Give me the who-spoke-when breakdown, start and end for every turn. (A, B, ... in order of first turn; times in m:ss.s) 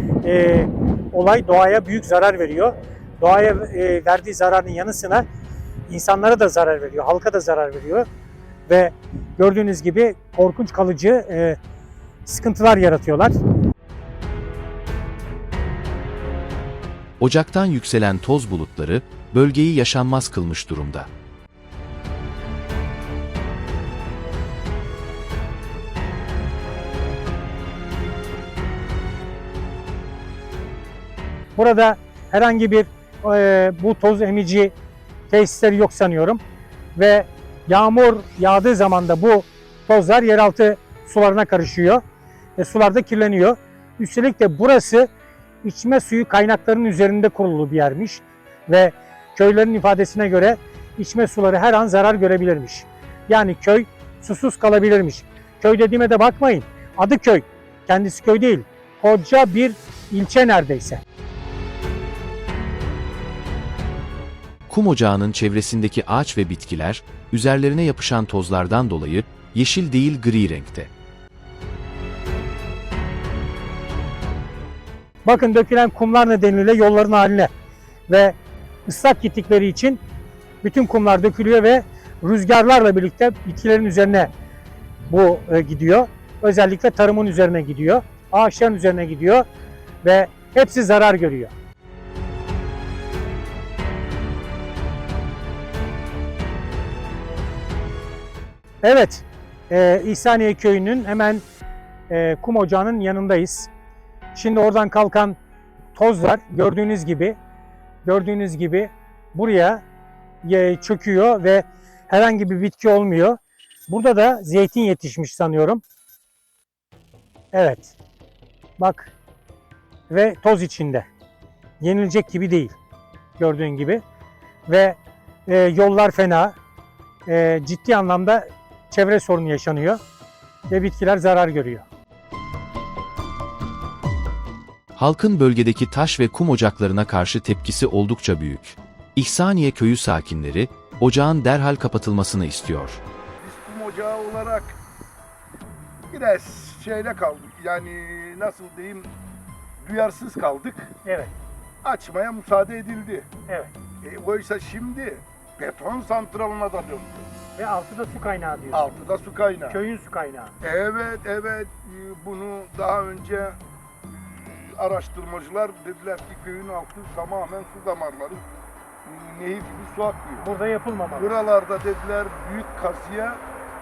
0:00.2-0:05.2 A
0:05.9-0:08.0 A
0:08.7-0:11.6 A
0:12.2-0:13.4 A
0:17.2-0:21.1 B
0:31.6-0:34.7 A
0:35.3-0:36.4 A
0:36.9-0:42.0 A
0:42.6-0:45.1 A
0:45.6-1:01.0 A
1:04.7-1:10.9 B
1:15.2-1:17.5 A
1:18.1-1:20.0 A
1:20.6-1:24.3 A
1:25.1-1:29.4 A
1:30.0-1:31.5 A
1:38.8-1:41.4 A
1:42.1-1:43.7 A
1:44.3-1:45.4 A
1:45.9-1:47.4 A
1:48.0-1:49.8 A
1:50.4-1:55.8 A
1:57.5-1:58.0 A
1:58.8-1:59.1 A
2:00.1-2:01.1 A
2:01.8-2:02.7 A
2:03.4-2:04.0 A
2:04.7-2:06.6 A
2:07.2-2:10.0 A
2:10.7-2:11.8 A
2:15.0-2:23.0 B
2:23.4-2:24.8 C
2:26.1-2:29.1 C
2:29.8-2:30.9 C
2:31.0-2:31.3 A
2:31.8-2:33.3 C
2:34.0-2:37.3 C
2:37.6-2:38.9 A
2:38.7-2:39.8 C
2:39.7-2:40.6 A
2:40.6-2:48.4 C
2:49.0-2:50.5 C
2:50.4-2:51.3 A
2:51.2-2:53.4 C